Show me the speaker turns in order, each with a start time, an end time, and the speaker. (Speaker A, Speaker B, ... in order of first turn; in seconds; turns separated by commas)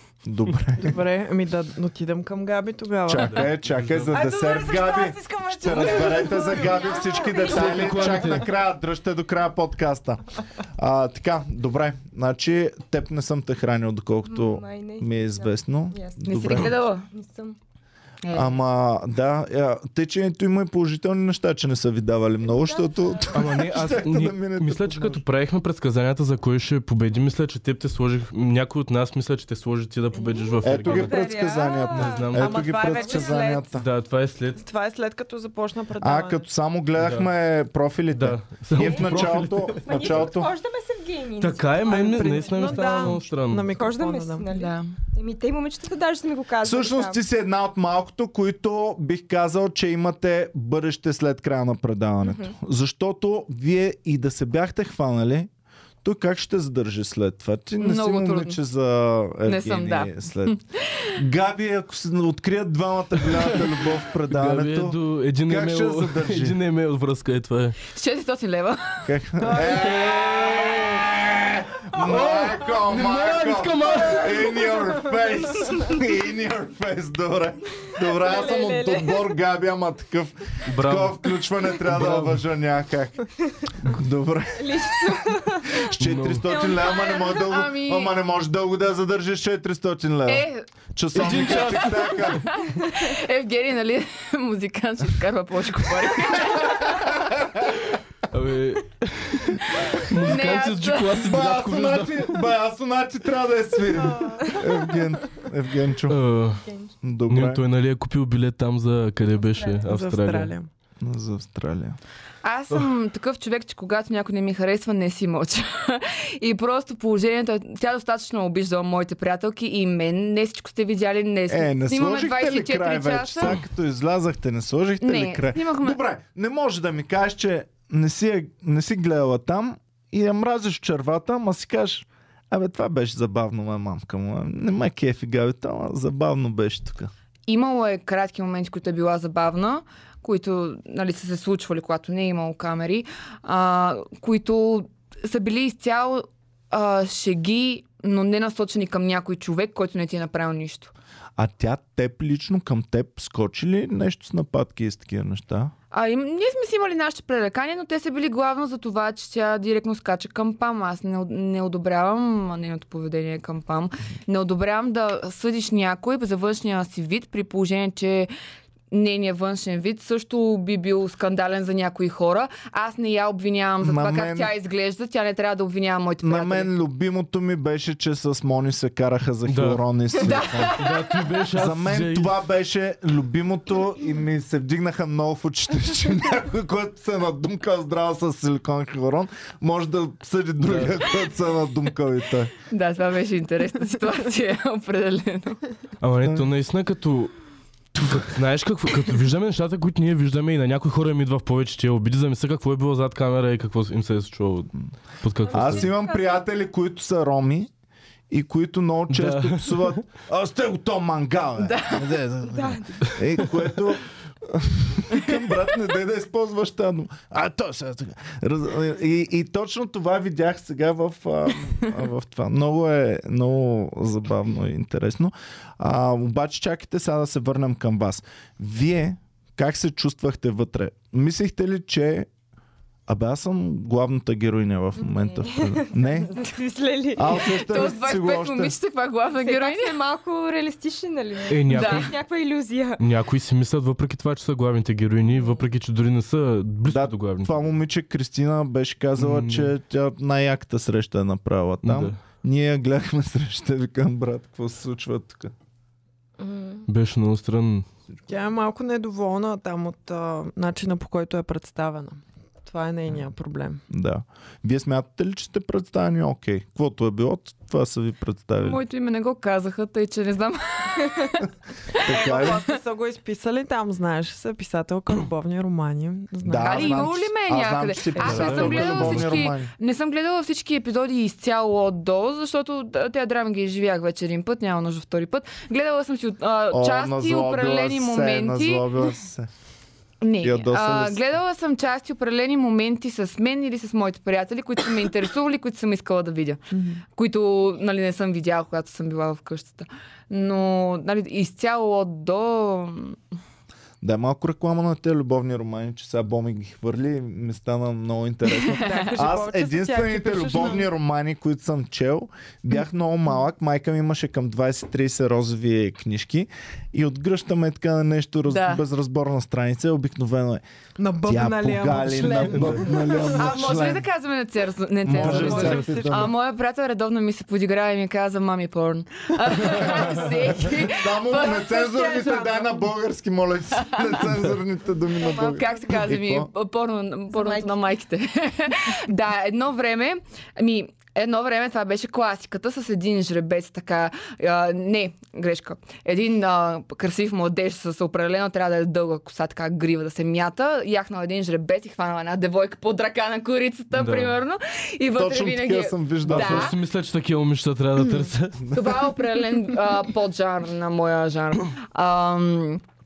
Speaker A: 0.2-1.0, Speaker B: 0.8-3.5, Speaker A: 3.1-10.2, Speaker C: 3.2-4.2, Speaker B: 4.1-8.2, Speaker D: 6.7-7.7, Speaker C: 7.5-8.4, Speaker A: 10.8-16.8, Speaker D: 14.3-17.6, Speaker E: 16.3-17.1, Speaker E: 18.2-18.6, Speaker A: 18.3-25.2, Speaker D: 22.4-23.5, Speaker C: 23.3-31.3, Speaker D: 30.2-32.3, Speaker A: 30.6-33.9, Speaker C: 31.9-32.8, Speaker B: 32.3-33.7, Speaker D: 32.9-33.3, Speaker C: 33.7-34.6, Speaker B: 34.5-36.5, Speaker A: 36.0-40.5, Speaker C: 37.0-37.3, Speaker C: 38.1-40.2, Speaker D: 38.8-47.2, Speaker C: 41.4-43.7, Speaker B: 41.9-44.5, Speaker E: 44.5-44.9, Speaker A: 46.6-55.5, Speaker D: 52.2-52.5, Speaker A: 56.0-60.6, Speaker E: 57.8-58.6, Speaker E: 59.5-61.1, Speaker A: 61.1-66.6, Speaker C: 63.4-63.7, Speaker C: 64.3-67.8, Speaker E: 67.9-69.1, Speaker A: 69.0-83.2, Speaker C: 69.5-71.3, Speaker C: 72.0-74.7, Speaker D: 75.6-75.9, Speaker D: 78.0-79.3, Speaker C: 80.7-82.4, Speaker A: 83.8-85.2, Speaker D: 84.6-85.8, Speaker A: 85.7-92.5, Speaker C: 86.0-86.6, Speaker E: 86.5-88.1, Speaker E: 90.3-90.7, Speaker C: 91.1-92.4, Speaker E: 91.3-97.2, Speaker A: 96.6-97.7, Speaker C: 98.3-102.4, Speaker E: 99.8-101.3, Speaker A: 101.2-106.2, Speaker C: 106.1-106.6, Speaker D: 106.7-106.9, Speaker A: 107.0-107.6, Speaker C: 107.3-110.5, Speaker D: 109.5-109.8, Speaker B: 109.8-110.7, Speaker A: 111.0-112.0, Speaker E: 112.4-123.6, Speaker A: 121.5-137.1, Speaker E: 125.0-126.0, Speaker E: 137.5-150.9, Speaker A: 151.4-155.7, Speaker E: 155.9-168.3, Speaker E: 168.9-176.7, Speaker A: 173.8-174.5, Speaker A: 176.2-180.8, Speaker C: 179.5-179.8, Speaker E: 180.2-181.3, Speaker C: 180.7-182.4, Speaker A: 181.6-192.5, Speaker C: 190.6-191.0, Speaker E: 192.7-195.6, Speaker C: 196.0-197.3, Speaker A: 196.2-196.5, Speaker C: 198.0-205.9, Speaker D: 205.4-206.3, Speaker A: 205.5-207.7, Speaker A: 208.3-232.3, Speaker C: 209.1-210.0, Speaker E: 211.6-212.1, Speaker D: 212.4-213.1, Speaker A: 233.1-236.3, Speaker D: 235.0-237.8, Speaker A: 237.1-238.7, Speaker E: 237.6-239.9, Speaker D: 239.3-243.0, Speaker C: 241.5-242.1, Speaker E: 241.7-242.1, Speaker C: 243.0-247.6, Speaker A: 246.9-255.5, Speaker C: 249.2-249.7, Speaker C: 251.8-252.2, Speaker D: 256.4-256.8, Speaker C: 256.9-257.9, Speaker B: 258.3-263.8, Speaker A: 263.9-268.8, Speaker E: 268.6-272.6, Speaker A: 272.0-272.6, Speaker B: 272.1-277.1, Speaker A: 276.4-279.7, Speaker E: 276.6-288.8, Speaker C: 278.2-279.5, Speaker A: 286.7-289.5, Speaker E: 290.2-296.6, Speaker A: 290.4-291.2, Speaker B: 296.7-297.0, Speaker E: 297.1-303.2, Speaker A: 304.0-320.6, Speaker B: 308.8-310.9, Speaker E: 318.5-318.8, Speaker B: 321.0-323.7, Speaker A: 321.2-324.0, Speaker C: 322.2-322.8, Speaker E: 323.3-331.7, Speaker A: 325.1-326.3, Speaker B: 325.1-326.2, Speaker A: 329.6-336.5, Speaker B: 331.7-332.7, Speaker E: 333.8-334.1, Speaker E: 335.2-356.8, Speaker D: 337.3-337.8, Speaker C: 353.9-354.3, Speaker A: 355.2-356.7, Speaker C: 356.3-358.7, Speaker E: 358.6-362.8